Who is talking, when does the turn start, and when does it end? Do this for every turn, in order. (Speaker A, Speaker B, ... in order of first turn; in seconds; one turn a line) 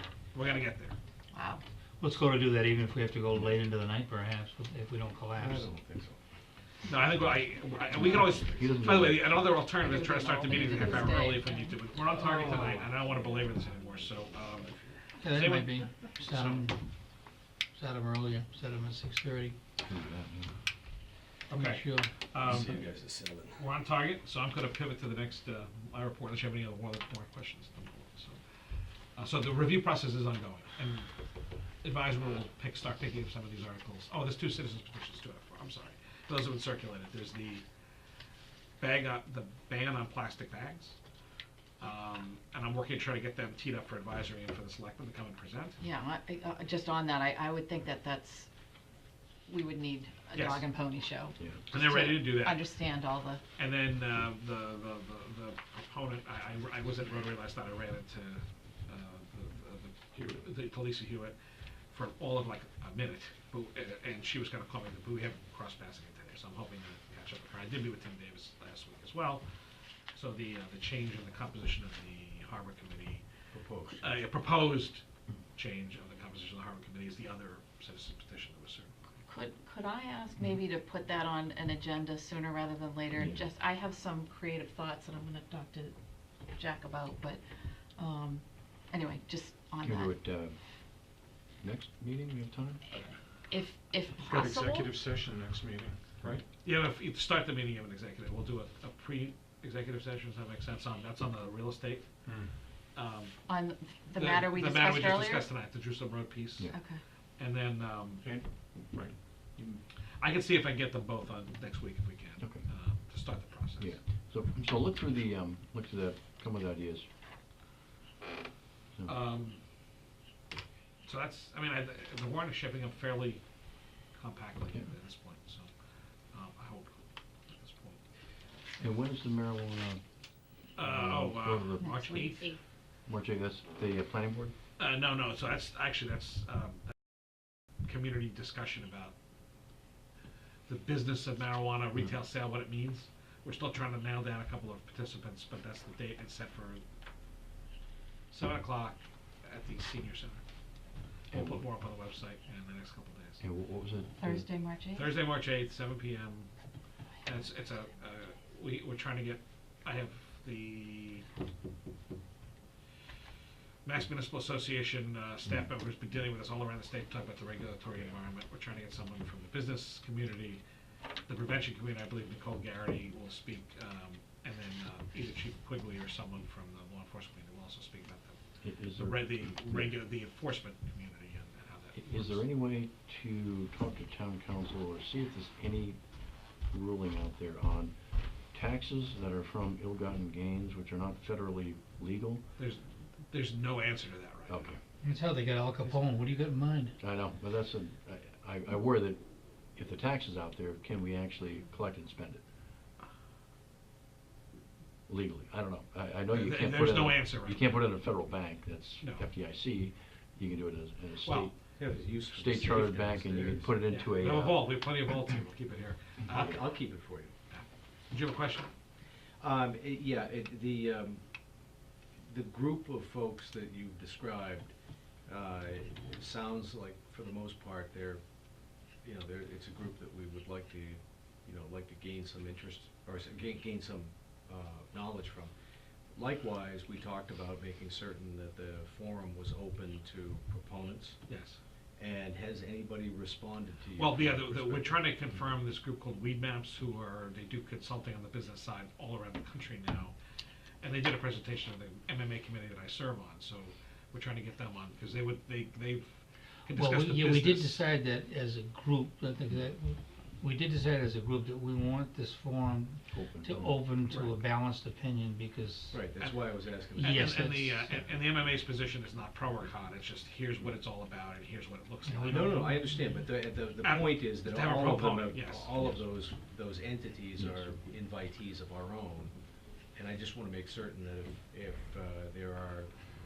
Speaker A: 0.3-0.9
Speaker B: 1.3-1.6
Speaker C: 2.0-5.7
Speaker D: 5.3-6.2
Speaker A: 6.8-16.7
Speaker D: 7.9-9.2
Speaker E: 8.0-9.4
Speaker B: 9.8-11.8
Speaker D: 12.1-15.0
Speaker C: 15.2-16.8
Speaker C: 17.7-19.6
Speaker E: 19.8-20.5
Speaker A: 21.5-22.8
Speaker C: 21.5-22.1
Speaker D: 22.4-23.7
Speaker A: 23.6-28.4
Speaker A: 29.1-31.1
Speaker A: 31.8-37.6
Speaker A: 38.8-41.0
Speaker A: 41.8-45.8
Speaker B: 45.8-48.5
Speaker B: 49.5-53.4
Speaker A: 50.3-50.6
Speaker A: 51.7-52.6
Speaker A: 53.6-61.4
Speaker A: 61.9-69.4
Speaker A: 70.1-73.2
Speaker D: 73.5-74.0
Speaker A: 74.0-75.0
Speaker A: 75.5-78.9
Speaker B: 79.2-86.0
Speaker E: 83.1-83.4
Speaker B: 86.5-87.4
Speaker B: 88.0-90.2
Speaker E: 89.8-91.0
Speaker E: 91.6-92.8
Speaker B: 93.5-94.9
Speaker F: 94.2-96.4
Speaker A: 96.6-102.1
Speaker A: 102.9-103.4
Speaker B: 103.5-105.5
Speaker A: 104.2-106.7
Speaker B: 106.7-107.0
Speaker A: 107.4-108.2
Speaker F: 108.2-109.8
Speaker A: 110.2-114.0
Speaker E: 112.4-112.6
Speaker E: 113.8-117.0
Speaker A: 119.0-119.6
Speaker A: 121.0-123.4
Speaker A: 124.1-125.7
Speaker A: 126.3-128.0
Speaker E: 128.8-130.0
Speaker E: 130.8-132.3
Speaker A: 130.8-132.5
Speaker B: 131.8-132.6
Speaker E: 133.1-134.5
Speaker A: 134.8-136.9
Speaker A: 137.8-139.1
Speaker A: 140.7-146.8
Speaker A: 148.3-150.4
Speaker A: 151.3-153.4
Speaker E: 151.3-151.6
Speaker E: 153.4-154.4
Speaker B: 154.2-155.1
Speaker A: 154.9-156.5
Speaker A: 157.2-161.2
Speaker A: 163.8-170.6
Speaker A: 171.3-178.4
Speaker E: 178.6-179.9
Speaker A: 178.9-182.4
Speaker E: 181.9-186.0
Speaker E: 186.7-187.9
Speaker E: 188.5-192.4
Speaker A: 192.6-194.7
Speaker E: 194.5-194.8
Speaker C: 195.0-197.0
Speaker E: 197.0-202.4
Speaker E: 205.1-211.5
Speaker A: 206.3-207.9
Speaker A: 209.0-209.2
Speaker A: 211.2-211.5
Speaker D: 211.8-213.7
Speaker E: 212.2-214.8
Speaker A: 213.9-216.6
Speaker D: 216.2-217.3
Speaker A: 217.5-218.7
Speaker D: 219.4-224.7
Speaker D: 225.2-228.2
Speaker D: 229.0-235.5
Speaker D: 236.1-241.2
Speaker A: 241.3-241.6
Speaker D: 242.0-245.4
Speaker A: 244.0-250.1
Speaker A: 250.8-256.1
Speaker A: 256.6-257.8
Speaker C: 256.7-266.0
Speaker E: 263.1-263.8
Speaker A: 264.1-264.3
Speaker D: 265.9-267.5
Speaker A: 267.0-272.6
Speaker C: 267.0-267.9
Speaker C: 272.1-272.8
Speaker D: 272.3-279.3
Speaker A: 273.8-275.7
Speaker D: 279.9-282.9